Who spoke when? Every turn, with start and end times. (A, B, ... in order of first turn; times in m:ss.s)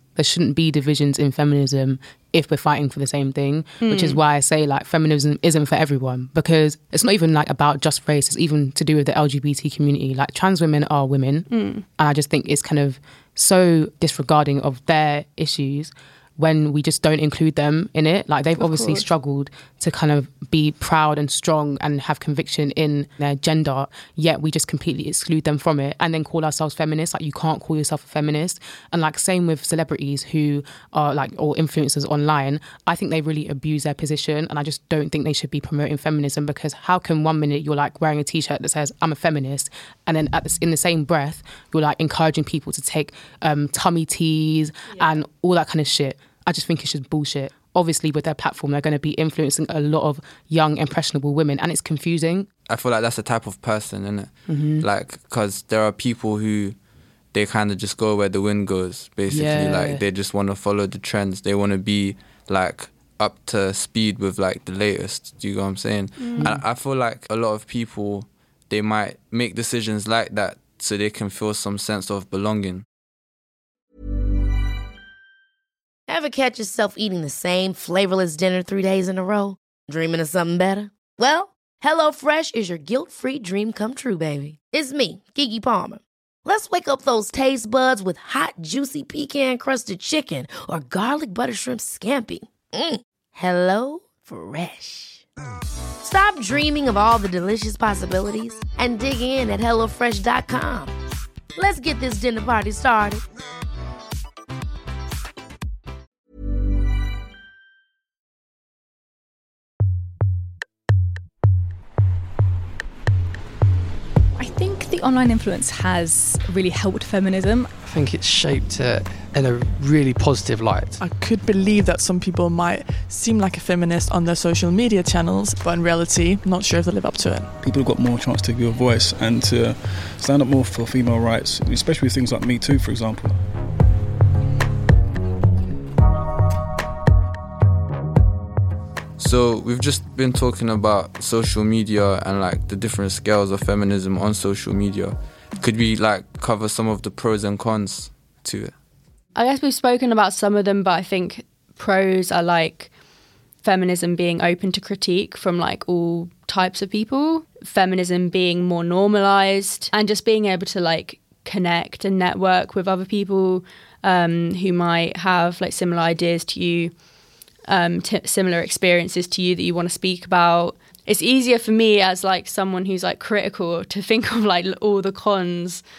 0:00.2-0:52.5 A
0:03.8-0:04.2 B
0:11.5-0:11.8 B
0:18.6-0:19.0 B
0:52.7-0:56.8 C
0:54.5-0:54.9 A
0:57.3-1:12.8 C
0:59.3-1:00.0 A
1:06.2-1:06.5 B
1:06.4-1:06.6 A
1:16.1-1:35.2 D
1:36.0-1:40.9 D
1:41.6-1:43.2 D
1:54.4-1:57.7 E
1:57.8-2:01.0 F
2:01.0-2:07.5 G
2:07.6-2:13.4 H
2:19.2-2:28.7 C
2:29.4-2:32.9 B
2:33.6-2:46.9 B
2:47.7-2:55.8 B